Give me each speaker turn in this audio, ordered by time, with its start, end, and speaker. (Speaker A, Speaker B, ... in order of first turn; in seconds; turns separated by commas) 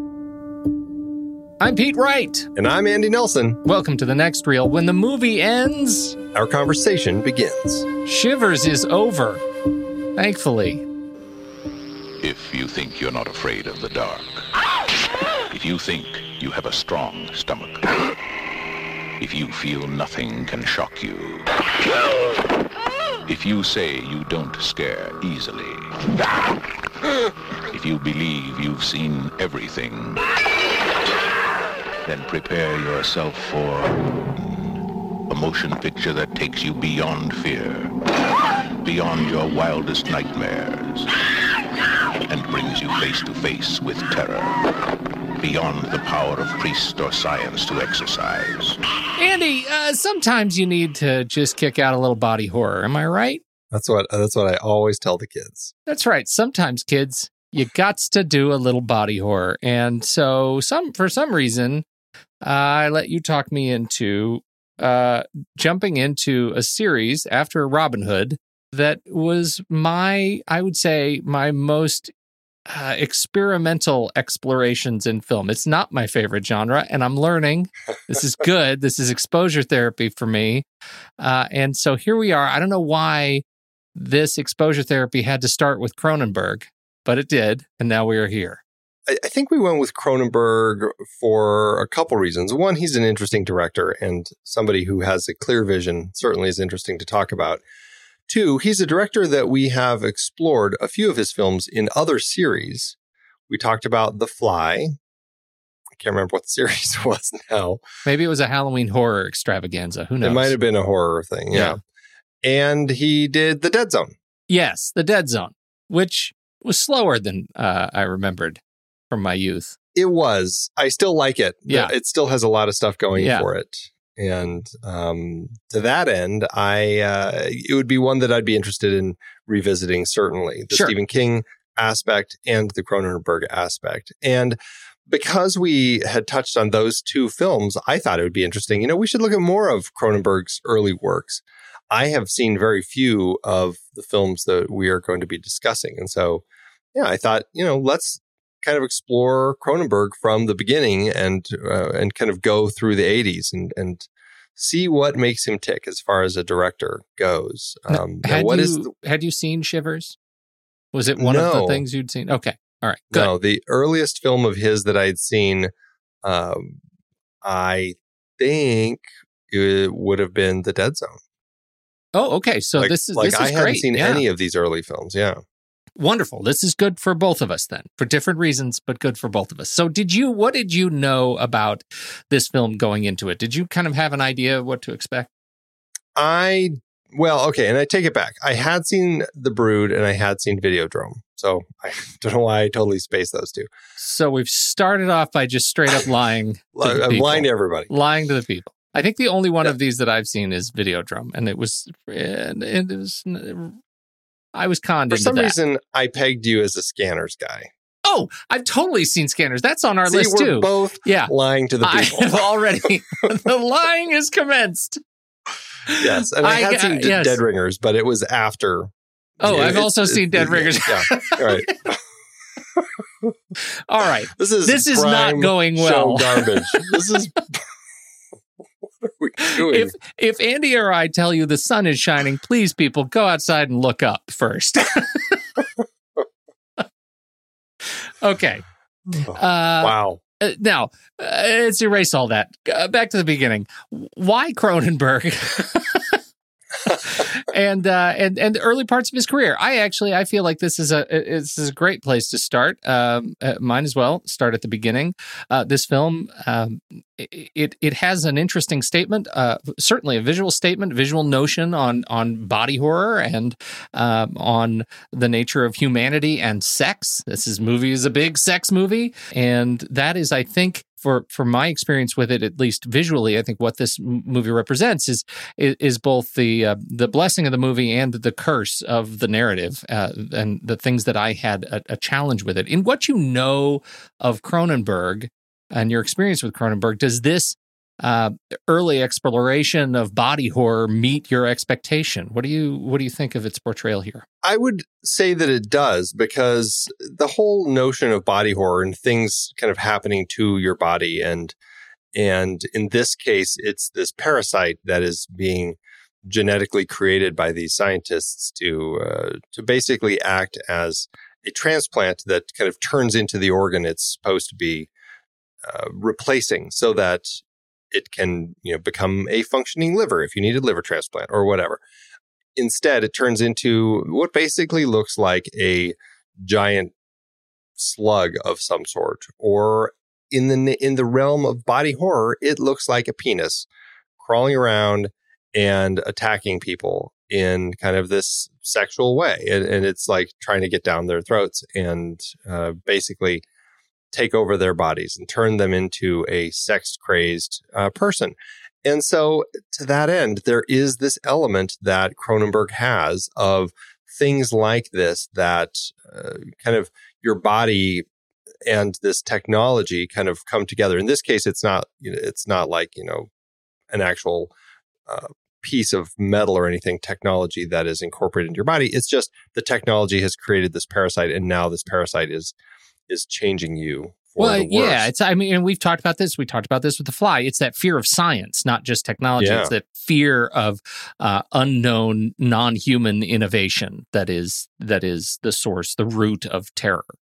Speaker A: 1.6-2.5, Speaker B: 2.5-3.6, Speaker A: 3.6-6.2, Speaker B: 6.3-7.9, Speaker A: 8.1-9.4, Speaker A: 10.2-10.8, Speaker C: 12.2-14.5, Speaker C: 15.5-18.0, Speaker C: 19.2-21.5, Speaker C: 23.3-25.9, Speaker C: 27.7-30.3, Speaker C: 32.0-34.7, Speaker C: 35.3-37.9, Speaker C: 38.8-41.1, Speaker C: 42.3-44.6, Speaker C: 45.4-48.8, Speaker A: 49.2-53.4, Speaker B: 53.7-55.7, Speaker A: 55.9-61.8, Speaker A: 62.4-72.1, Speaker A: 72.7-80.7, Speaker A: 81.2-83.4, Speaker A: 83.9-88.6, Speaker B: 89.1-97.6, Speaker B: 98.3-103.0, Speaker B: 103.5-105.0, Speaker B: 106.0-107.8, Speaker A: 108.0-110.5, Speaker B: 110.2-111.8, Speaker A: 111.5-111.8, Speaker B: 112.4-114.2, Speaker A: 114.5-119.8, Speaker B: 119.9-146.4, Speaker A: 123.2-123.5, Speaker B: 146.9-158.9, Speaker A: 157.9-160.2, Speaker A: 160.9-163.3, Speaker B: 161.2-161.8, Speaker B: 163.1-165.7, Speaker B: 166.2-166.8, Speaker B: 167.4-171.2, Speaker A: 172.2-174.2, Speaker B: 172.8-175.4, Speaker A: 176.0-185.3, Speaker B: 186.2-193.7, Speaker A: 194.0-203.8, Speaker B: 196.8-197.9, Speaker A: 204.6-205.6, Speaker B: 205.1-207.7, Speaker A: 208.1-215.0, Speaker B: 210.1-212.6, Speaker A: 215.9-217.4, Speaker B: 216.0-221.9, Speaker A: 219.4-221.9, Speaker B: 222.8-223.3, Speaker A: 223.9-226.9, Speaker B: 224.3-227.6, Speaker B: 229.1-229.9, Speaker A: 229.4-235.6, Speaker A: 238.0-238.6, Speaker B: 239.1-240.2, Speaker A: 239.3-246.2, Speaker A: 246.9-294.2, Speaker B: 294.4-301.6, Speaker B: 302.1-314.9, Speaker B: 315.6-321.8, Speaker B: 322.6-326.9, Speaker B: 327.8-333.7, Speaker B: 334.2-343.4, Speaker B: 344.1-358.1, Speaker B: 358.7-363.3, Speaker B: 363.9-364.5, Speaker B: 365.1-372.6, Speaker B: 373.1-375.1, Speaker A: 374.4-387.1, Speaker B: 379.4-379.7